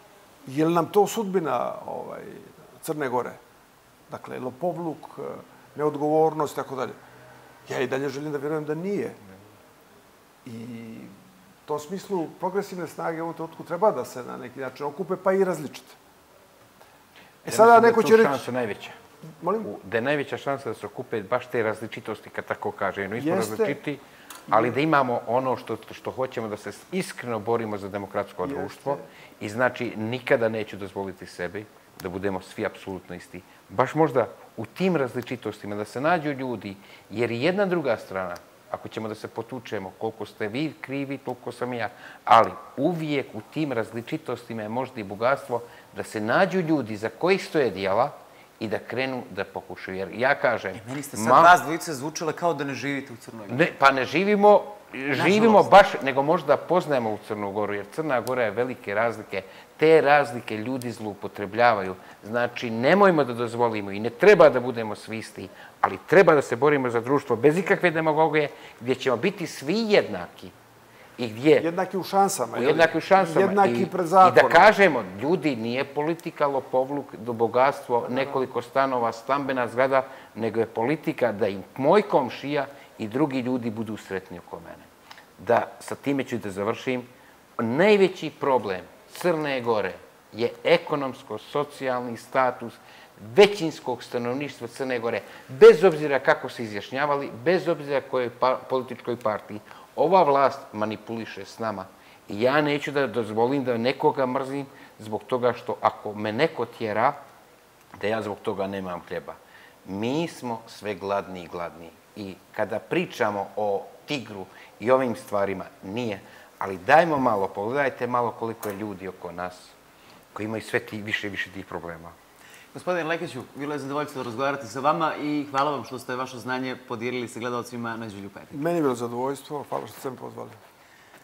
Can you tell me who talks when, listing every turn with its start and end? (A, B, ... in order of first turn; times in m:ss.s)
0:00.4-0:03.4 A
0:04.1-0:07.0 A
0:07.7-0:09.2 A
0:10.4-0:11.2 A
0:11.7-0:16.0 A
0:17.4-0:18.5 A
0:17.5-0:19.0 B
0:19.4-0:19.7 A
0:19.6-0:51.6 B
0:23.2-0:23.8 A
0:28.4-0:29.0 A
0:50.8-0:53.7 C
0:53.5-1:10.5 B
0:55.1-0:55.8 C
1:11.2-1:11.7 B
1:11.6-1:14.7 A
1:12.6-1:24.9 B
1:18.0-1:18.4 A
1:25.4-1:27.1 B
1:27.6-1:47.2 B
1:48.0-1:59.7 B
2:00.3-2:02.2 B
2:02.7-2:08.6 C
2:08.5-2:10.6 A